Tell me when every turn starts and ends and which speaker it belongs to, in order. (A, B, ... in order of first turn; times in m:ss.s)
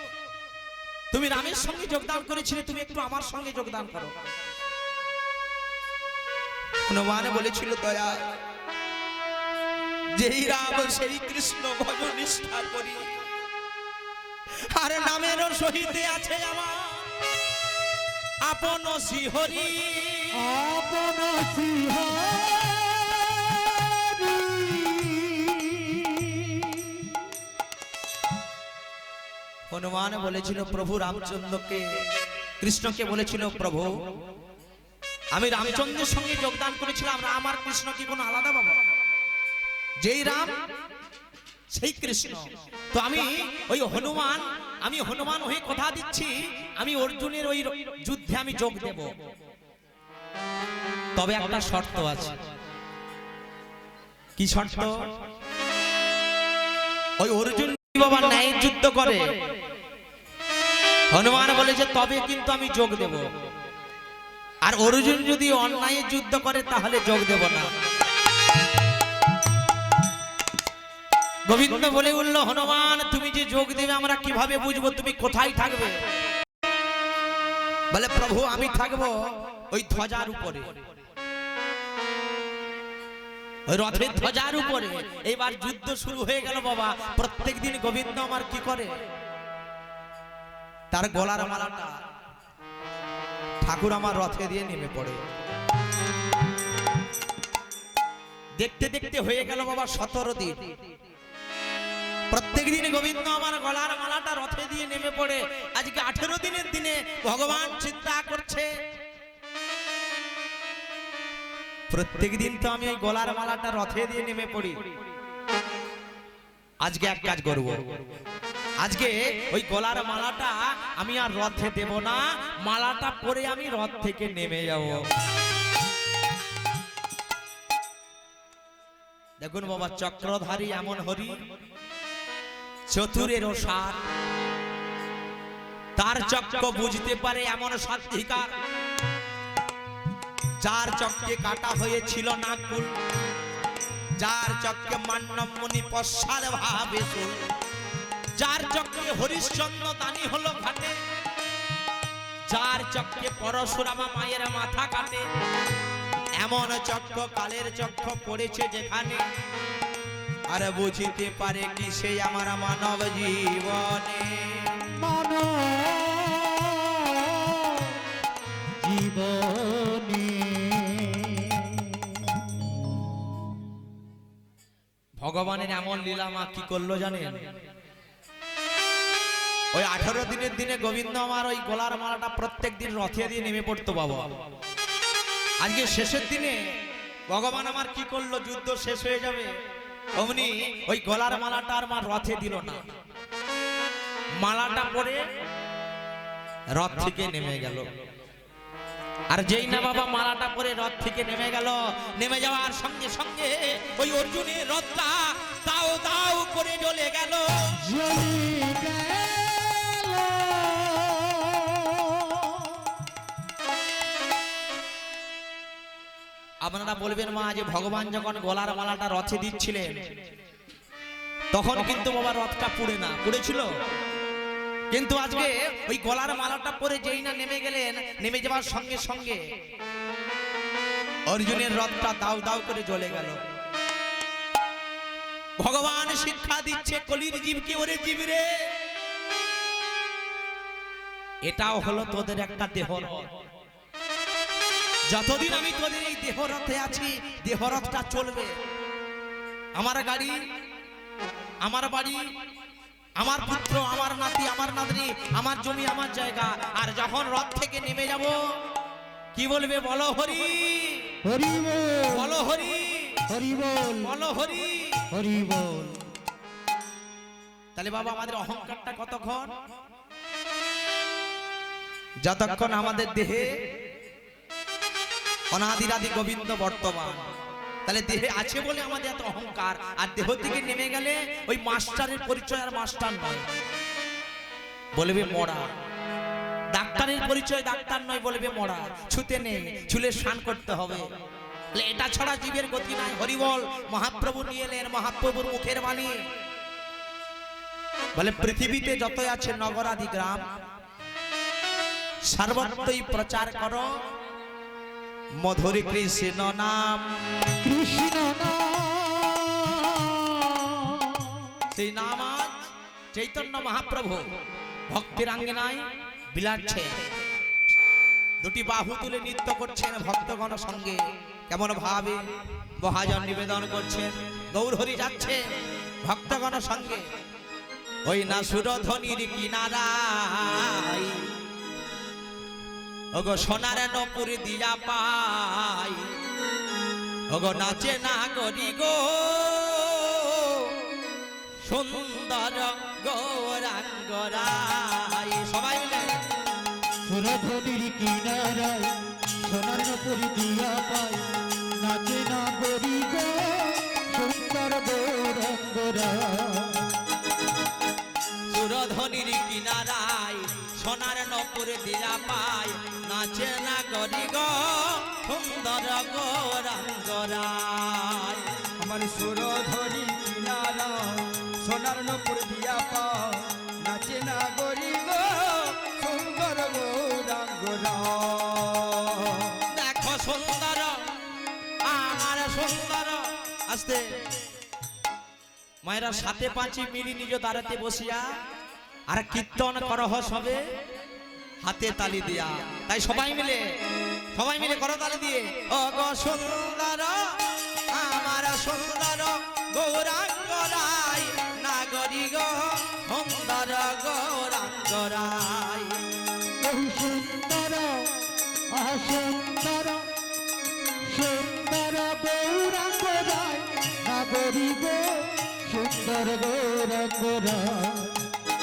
0:01.1-0:04.1 A
0:06.9-0:08.2 A
0:10.2-0:13.0 A
0:14.7-0:17.1 A
0:18.4-0:20.4 A
0:20.3-0:27.2 B
0:29.7-0:31.8 A
0:32.6-0:33.9 A
0:35.3-0:38.8 A
0:40.0-0:40.5 A
0:41.7-0:49.1 A
0:51.2-0:52.4 A
0:54.4-0:55.0 A
0:57.2-0:59.2 A
1:01.1-1:03.2 A
1:04.6-1:07.7 A
1:11.5-1:16.0 A
1:17.9-1:19.2 A
1:19.7-1:20.7 A
1:23.7-1:28.9 A
1:30.9-1:31.9 A
1:33.6-1:35.2 A
1:38.6-1:40.5 A
1:42.3-1:48.7 A
1:51.9-1:54.8 A
1:56.8-1:57.8 A
1:58.8-2:05.0 A
2:09.4-2:11.3 A
2:12.9-2:14.0 A
2:16.0-2:18.5 A
2:20.6-2:22.9 A
2:24.2-2:27.4 A
2:28.4-2:30.9 A
2:32.5-2:35.2 A
2:36.4-2:39.2 A
2:40.5-2:44.7 A
2:45.0-2:48.0 B
2:48.8-2:52.7 B
2:55.2-2:57.4 A
2:59.7-3:04.2 A
3:05.6-3:06.6 A
3:07.3-3:09.5 A
3:10.2-3:12.8 A
3:14.4-3:15.2 A
3:16.7-3:17.8 A
3:19.3-3:27.5 A
3:27.8-3:33.0 B
3:36.6-3:39.9 A
3:41.5-3:43.7 A
3:44.9-3:49.4 A
3:51.3-3:53.4 A
3:55.6-3:58.5 A
4:01.4-4:03.3 A
4:05.1-4:08.5 A
4:09.8-4:10.4 A
4:11.6-4:12.2 A
4:13.2-4:18.4 A
4:19.3-4:21.0 A
4:21.2-4:22.4 B
4:22.1-4:23.2 A
4:23.3-4:24.1 B
4:24.0-4:25.0 A
4:25.1-4:26.0 B
4:27.8-4:29.5 A
4:32.2-4:33.4 A
4:35.5-4:37.2 A
4:37.8-4:43.4 A
4:45.0-4:45.6 A
4:46.7-4:51.0 A
4:51.7-4:56.1 A
4:58.1-5:00.4 A
5:02.3-5:03.9 A
5:05.4-5:07.0 A
5:07.6-5:11.6 B
5:11.7-5:12.5 A
5:13.1-5:14.2 A
5:14.9-5:15.8 A
5:16.3-5:16.9 A
5:18.4-5:21.0 A
5:21.5-5:22.2 A
5:22.8-5:25.4 A
5:26.0-5:27.0 A
5:28.1-5:31.3 A
5:33.1-5:36.1 A
5:37.3-5:40.7 A
5:41.6-5:46.1 A
5:47.0-5:51.2 B
5:51.8-5:56.9 B
5:58.5-6:08.4 A
6:08.8-6:19.6 C
6:19.7-6:21.0 A
6:21.8-6:24.0 A
6:25.8-6:28.2 A
6:29.1-6:30.6 A
6:31.6-6:33.6 A
6:34.3-6:37.4 A
6:37.9-6:46.0 A
6:46.6-6:48.1 B
6:48.7-6:50.1 B
6:51.0-6:58.2 B